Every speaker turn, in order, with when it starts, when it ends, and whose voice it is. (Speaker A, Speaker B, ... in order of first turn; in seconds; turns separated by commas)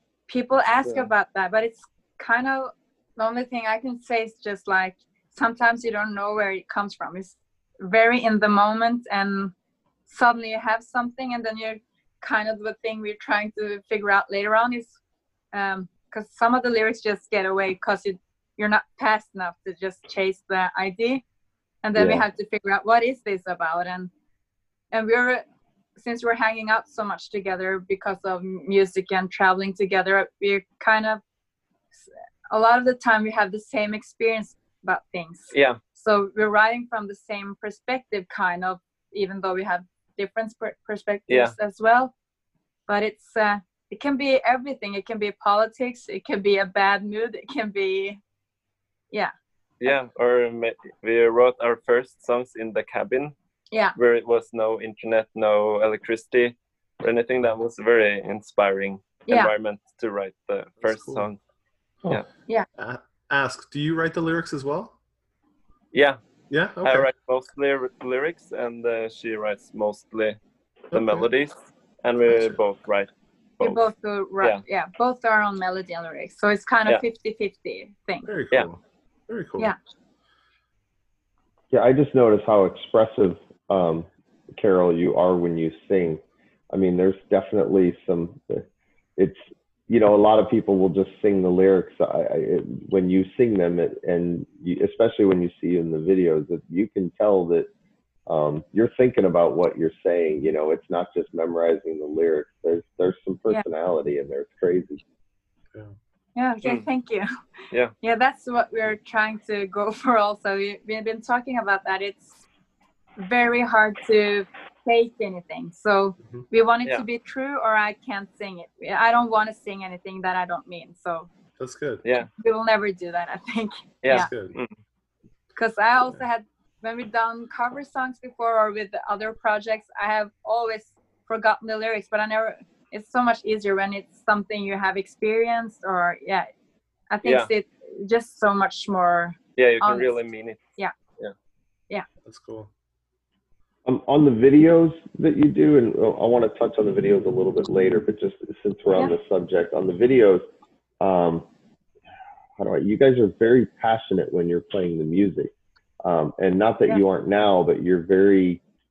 Speaker A: 0.3-9.5, Speaker A: 10.1-14.9, Speaker A: 15.5-21.2, Speaker A: 21.8-24.1, Speaker B: 22.0-22.2, Speaker A: 24.9-25.4, Speaker A: 26.0-31.2, Speaker A: 32.5-42.1, Speaker C: 35.5-35.8, Speaker C: 41.3-41.5, Speaker A: 42.9-48.2, Speaker C: 49.8-53.3, Speaker C: 54.0-61.4, Speaker D: 60.8-61.3, Speaker D: 62.8-65.0, Speaker C: 65.9-66.2, Speaker D: 66.5-67.1, Speaker C: 66.8-70.4, Speaker D: 70.9-71.3, Speaker C: 70.9-73.9, Speaker D: 72.3-72.6, Speaker A: 73.6-78.3, Speaker D: 78.2-79.7, Speaker B: 81.7-88.7, Speaker B: 89.2-97.7, Speaker B: 98.3-105.0, Speaker A: 106.4-107.3, Speaker A: 108.0-112.4, Speaker A: 113.2-121.3, Speaker D: 121.6-122.0, Speaker C: 122.0-122.3, Speaker A: 122.4-124.3, Speaker C: 124.0-124.7, Speaker D: 124.1-124.6, Speaker A: 125.6-136.5, Speaker A: 137.1-140.2, Speaker C: 137.2-137.5, Speaker C: 139.6-140.6, Speaker D: 142.2-142.7, Speaker B: 143.8-150.5, Speaker B: 151.0-151.5, Speaker B: 152.6-155.5, Speaker B: 156.0-158.6